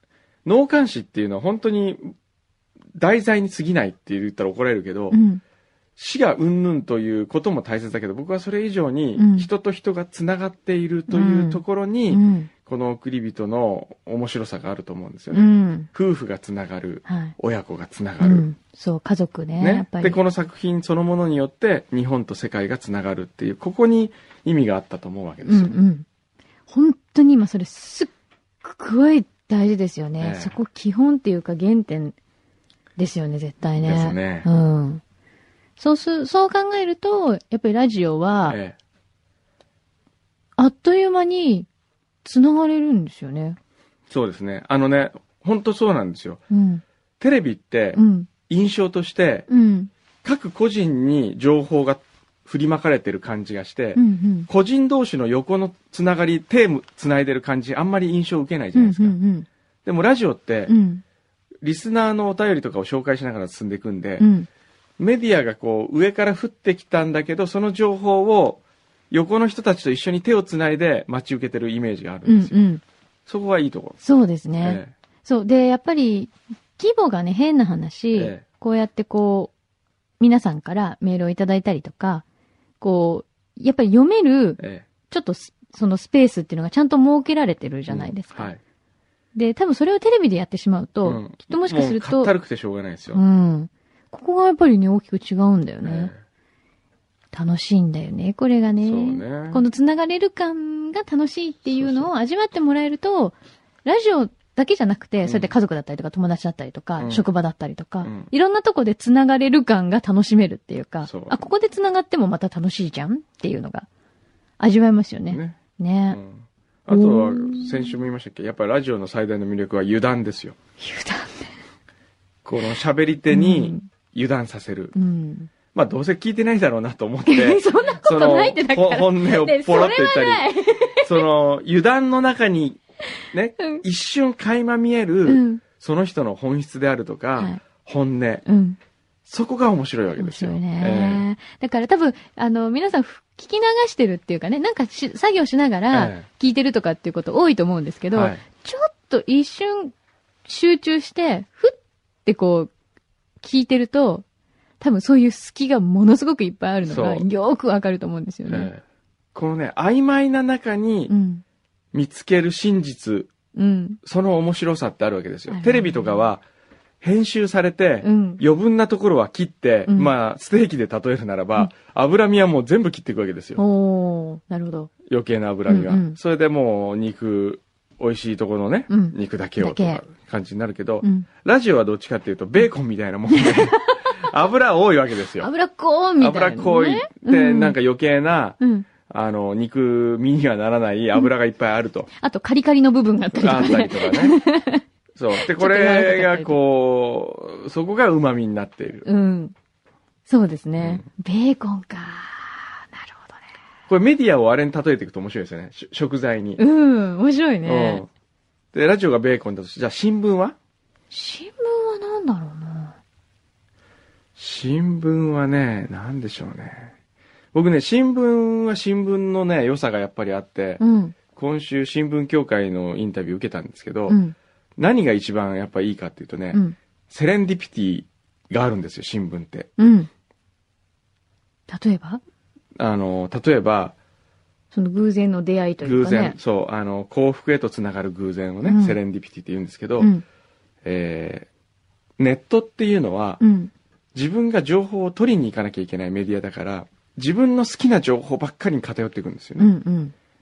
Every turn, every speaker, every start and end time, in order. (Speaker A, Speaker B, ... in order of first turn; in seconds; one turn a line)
Speaker A: 0.4-2.1
Speaker A: 2.9-5.2
Speaker B: 5.1-5.4
Speaker A: 6.0-18.4
Speaker B: 9.2-9.5
Speaker B: 11.1-12.5
Speaker B: 15.3-15.9
Speaker B: 17.1-17.3
Speaker B: 18.2-20.2
Speaker A: 19.6-25.7
Speaker B: 25.4-26.1
Speaker B: 26.7-28.1
Speaker B: 28.6-32.1
Speaker A: 30.2-30.6
Speaker B: 33.0-35.0
Speaker A: 33.8-34.5
Speaker B: 35.8-38.6
Speaker A: 38.5-38.8
Speaker B: 40.6-41.7
Speaker B: 42.2-43.6
Speaker A: 44.1-46.4
Speaker B: 46.5-46.8
Speaker A: 47.2-49.5
Speaker B: 47.9-48.3
Speaker B: 49.5-49.9
Speaker A: 50.2-59.2
Speaker B: 53.9-54.5
Speaker B: 58.7-59.5
Speaker A: 59.8-60.7
Speaker B: 60.7-61.0
Speaker A: 61.6-64.3
Speaker B: 64.2-64.5
Speaker A: 65.0-72.6
Speaker B: 72.2-72.8
Speaker A: 73.3-74.0
Speaker B: 74.0-79.5
Speaker A: 74.6-74.9
Speaker A: 78.1-78.4
Speaker B: 80.2-82.2
Speaker B: 82.8-88.5
Speaker A: 84.6-84.9
Speaker A: 87.9-88.6
Speaker B: 89.3-92.3
Speaker A: 91.0-93.2
Speaker B: 93.1-96.1
Speaker A: 95.8-96.2
Speaker B: 97.3-113.9
Speaker A: 98.8-99.6
Speaker A: 101.7-102.1
Speaker A: 105.2-105.5
Speaker A: 107.0-107.2
Speaker A: 108.0-108.3
Speaker A: 111.0-111.4
Speaker B: 114.6-116.2
Speaker A: 115.3-115.6
Speaker A: 116.1-120.5
Speaker B: 116.9-118.0
Speaker B: 120.8-121.5
Speaker A: 122.4-124.9
Speaker B: 123.3-123.8
Speaker B: 124.9-125.5
Speaker A: 125.7-130.5
Speaker B: 127.2-131.2
Speaker A: 131.0-132.8
Speaker A: 133.3-138.4
Speaker B: 133.6-133.8
Speaker B: 135.2-135.6
Speaker B: 138.4-138.8
Speaker A: 139.3-141.2
Speaker B: 140.2-149.9
Speaker A: 145.9-146.2
Speaker A: 148.1-148.4
Speaker B: 150.4-152.7
Speaker B: 153.4-154.2
Speaker B: 154.8-158.7
Speaker A: 156.8-157.3
Speaker A: 158.5-158.8
Speaker A: 159.3-161.1
Speaker B: 161.1-161.4
Speaker A: 161.9-163.3
Speaker B: 163.5-164.0
Speaker A: 164.0-166.4
Speaker B: 165.5-166.2
Speaker A: 167.0-173.6
Speaker B: 168.0-168.4
Speaker B: 173.6-174.9
Speaker A: 175.1-185.5
Speaker B: 175.7-176.2
Speaker B: 178.9-180.0
Speaker B: 181.0-181.3
Speaker B: 183.3-184.1
Speaker B: 185.4-187.7
Speaker A: 186.2-192.1
Speaker B: 188.6-188.9
Speaker B: 192.2-196.6
Speaker A: 193.3-194.4
Speaker A: 195.1-199.1
Speaker B: 199.0-199.5
Speaker B: 200.3-203.4
Speaker A: 203.9-206.6
Speaker B: 206.6-208.0
Speaker A: 207.6-208.1
Speaker A: 208.7-210.6
Speaker B: 211.1-213.0
Speaker A: 214.3-216.9
Speaker A: 217.5-224.2
Speaker B: 220.8-221.2
Speaker B: 224.1-224.3
Speaker A: 224.8-229.7
Speaker B: 229.8-230.1
Speaker B: 231.7-232.2
Speaker A: 232.8-233.9
Speaker B: 234.7-236.4
Speaker A: 235.8-240.1
Speaker B: 238.6-239.0
Speaker A: 240.8-241.5
Speaker A: 242.2-243.4
Speaker B: 243.4-243.7
Speaker A: 244.1-249.7
Speaker B: 249.6-250.1